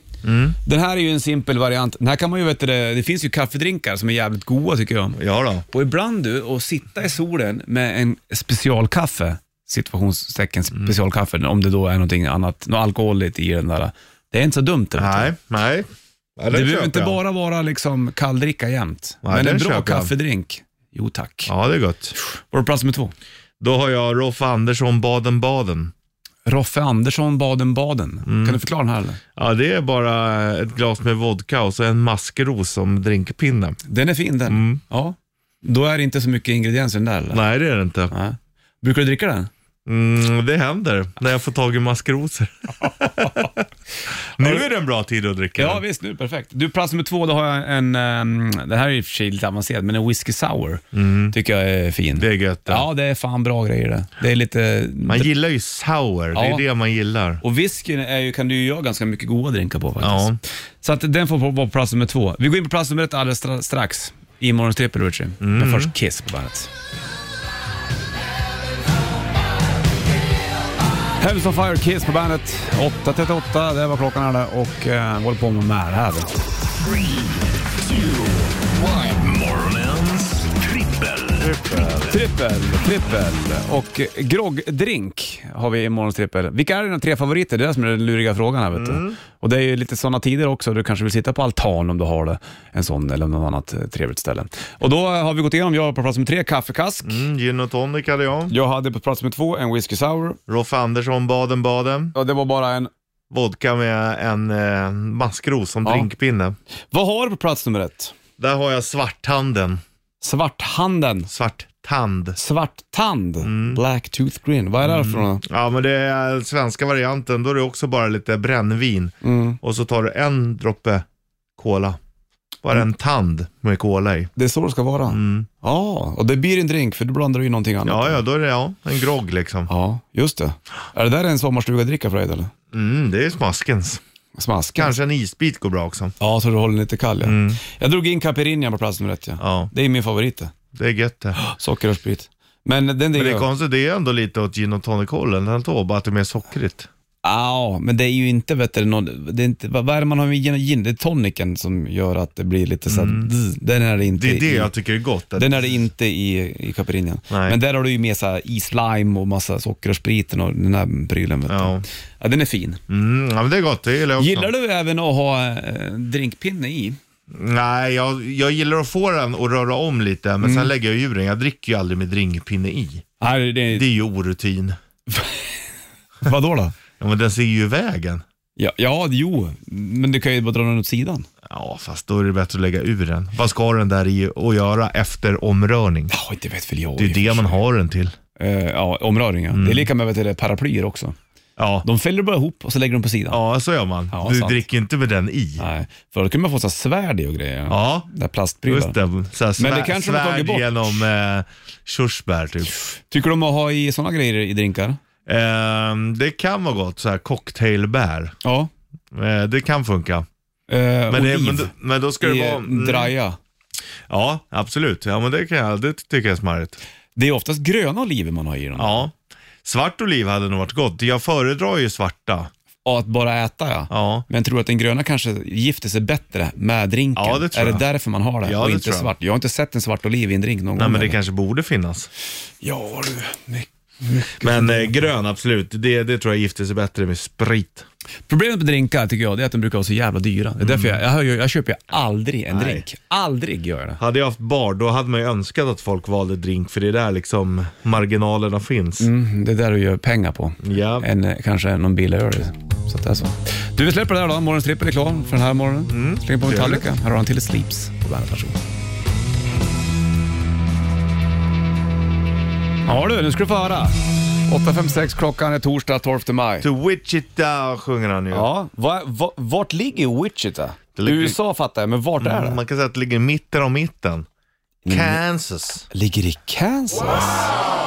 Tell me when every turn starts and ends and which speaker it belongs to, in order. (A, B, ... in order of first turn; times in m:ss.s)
0:00.2-0:00.6 A
0:00.6-0:15.3 B
0:05.2-0:05.6 A
0:15.0-0:17.2 A
0:16.5-0:21.5 B
0:19.2-0:20.1 A
0:21.5-0:22.1 A
0:22.2-0:23.1 B
0:23.6-0:25.9 A
0:26.4-0:29.2 B
0:28.2-0:28.6 A
0:29.4-0:33.8 A
0:33.8-0:37.4 B
0:34.5-0:34.8 A
0:37.3-0:38.1 A
0:38.1-0:39.5 B
0:39.8-0:43.6 A
0:42.9-0:43.5 B
0:44.4-0:45.8 A
0:44.4-0:44.7 B
0:45.6-0:55.3 B
0:50.9-0:51.3 A
0:52.2-0:52.8 A
0:55.1-0:57.4 A
0:56.3-0:56.6 B
0:57.4-1:06.7 B
1:00.0-1:00.4 A
1:05.4-1:05.9 A
1:11.2-1:16.3 B
1:16.9-1:22.1 C
1:22.0-1:37.2 B
1:28.7-1:29.2 A
1:37.0-1:38.5 A
1:38.5-1:40.4 B
1:40.5-1:42.1 A
1:42.1-1:42.9 B
1:43.3-1:46.6 A
1:46.9-1:48.2 B
1:48.4-1:49.8 A
1:50.2-1:51.3 B
1:51.3-1:52.4 A
1:52.4-1:55.4 B
1:53.4-1:53.8 A
1:54.8-2:01.0 A
1:59.2-1:59.6 B
2:01.6-2:02.0 A
2:02.6-2:04.3 A
2:04.4-2:08.2 B
2:05.1-2:05.5 A
2:07.8-2:09.7 A
2:09.7-2:12.5 B
2:12.7-2:14.0 A
2:14.4-2:14.9 B
2:14.8-2:16.1 A
2:16.2-2:20.5 B
2:17.2-2:17.6 A
2:19.4-2:19.7 A
2:20.7-2:21.4 A
2:21.4-2:23.5 B
2:23.1-2:26.9 A
2:27.2-2:34.7 B
2:32.9-2:33.3 A
2:34.2-2:35.7 A
2:35.4-2:42.8 B
2:37.3-2:37.6 A
2:41.5-2:41.8 A
2:42.9-2:44.5 A
2:44.2-2:47.0 B
2:47.3-2:53.1 A
2:50.4-2:50.7 B
2:53.2-2:53.9 B
2:53.7-2:54.8 A
2:55.1-2:55.6 B
2:56.2-2:56.7 B
2:57.0-2:58.2 A
2:58.6-3:01.3 B
3:01.5-3:06.1 A
3:06.1-3:07.6 B
3:07.0-3:08.2 A
3:08.4-3:11.2 B
3:09.5-3:09.9 A
3:11.6-3:11.8 A
3:11.8-3:13.4 B
3:13.3-3:15.6 A
3:14.1-3:14.6 B
3:15.6-3:19.0 B
3:17.7-3:18.1 A
3:18.7-3:22.8 A
3:19.6-3:21.0 B
3:22.8-3:25.0 B
3:25.2-3:28.3 A
3:28.4-3:28.7 B
3:29.1-3:30.2 A
3:30.7-3:33.4 B
3:31.1-3:33.1 A
3:34.1-3:36.8 A
3:37.2-3:39.0 B
3:38.8-3:39.1 A
3:39.6-3:42.5 A
3:42.8-3:51.2 B
3:43.9-3:44.2 A
3:47.2-3:47.8 A
3:48.4-3:49.1 A
3:50.8-3:52.1 A
3:52.6-3:54.9 B
3:54.4-3:57.8 A
3:58.3-4:04.0 B
4:00.6-4:01.0 A
4:02.5-4:02.8 A
4:04.0-4:09.1 A
4:09.0-4:18.6 B
4:10.6-4:11.1 A
4:15.9-4:16.9 A
4:22.8-4:26.7 B
4:26.6-4:28.5 A
4:28.3-4:32.6 B
4:31.0-4:31.4 A
4:32.2-4:34.3 A
4:34.8-4:35.2 B
4:34.9-4:35.8 A
4:35.9-4:37.5 B